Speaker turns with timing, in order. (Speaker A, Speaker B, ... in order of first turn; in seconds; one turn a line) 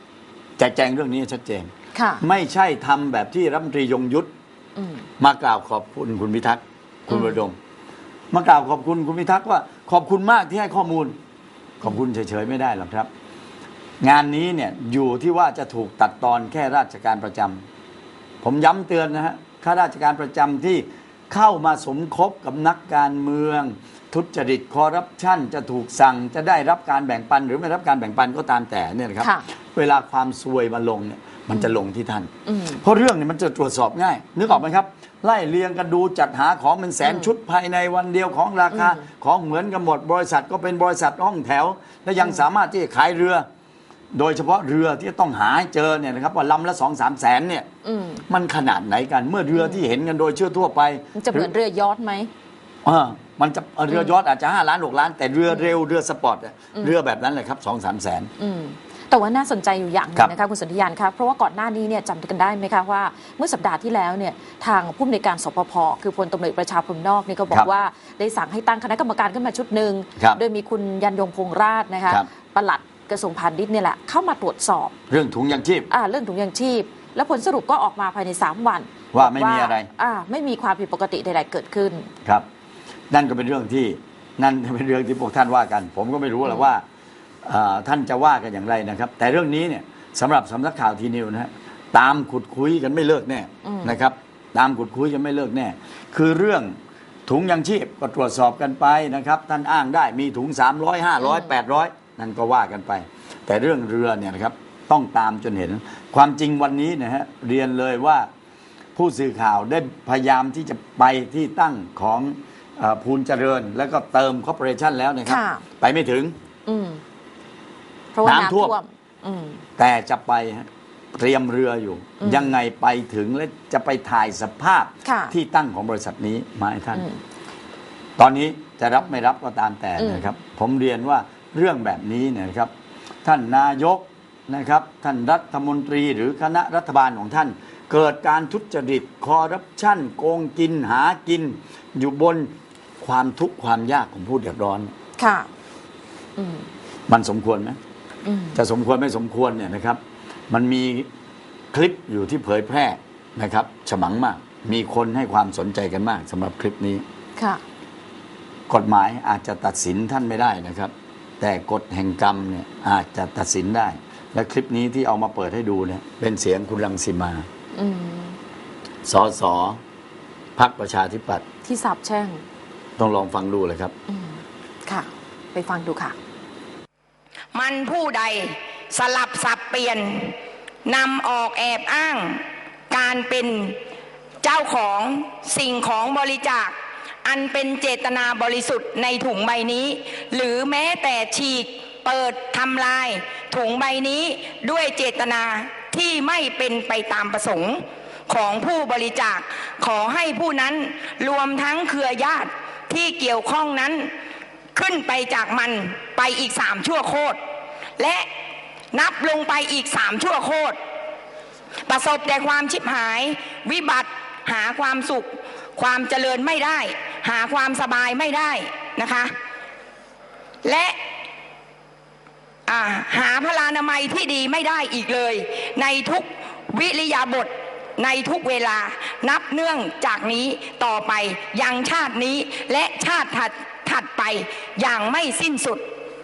Speaker A: 0.6-4.3
Speaker B: 1.9-2.2
Speaker B: 4.8-5.1
Speaker A: 5.2-7.6
Speaker B: 7.1-7.4
Speaker A: 8.3-11.1
Speaker A: 11.8-13.1
Speaker A: 14.0-17.6
Speaker A: 18.4-43.5
Speaker B: 32.5-32.8
Speaker B: 38.7-39.0
Speaker A: 44.1-47.7
Speaker B: 47.8-48.2
Speaker A: 48.3-51.5
Speaker B: 51.1-52.3
Speaker A: 52.8-58.3
Speaker B: 53.9-54.1
Speaker B: 58.4-74.9
Speaker A: 75.1-75.9
Speaker B: 75.9-82.1
Speaker A: 79.1-79.9
Speaker A: 83.1-86.8
Speaker A: 87.4-108.3
Speaker B: 93.6-94.0
Speaker B: 101.2-101.5
Speaker A: 109.0-116.3
Speaker B: 115.3-115.6
Speaker B: 116.7-117.0
Speaker B: 118.1-119.6
Speaker A: 118.2-118.8
Speaker A: 119.8-127.0
Speaker B: 122.2-122.5
Speaker B: 125.0-125.3
Speaker B: 126.9-127.2
Speaker A: 128.2-132.7
Speaker B: 130.0-130.3
Speaker A: 133.2-144.9
Speaker B: 145.2-145.5
Speaker B: 146.4-146.7
Speaker A: 147.1-147.8
Speaker B: 148.2-148.6
Speaker A: 148.6-151.1
Speaker A: 151.7-157.0
Speaker B: 157.4-157.6
Speaker A: 158.7-167.5
Speaker B: 167.7-168.4
Speaker A: 169.1-169.8
Speaker A: 170.6-171.4
Speaker B: 171.6-172.4
Speaker A: 173.0-173.9
Speaker B: 174.1-176.1
Speaker C: 177.5-183.8
Speaker C: 184.4-204.1
Speaker C: 204.8-207.4
Speaker C: 208.0-208.3
Speaker C: 208.9-210.8
Speaker C: 211.9-219.4
Speaker C: 220.6-221.0
Speaker C: 222.7-235.9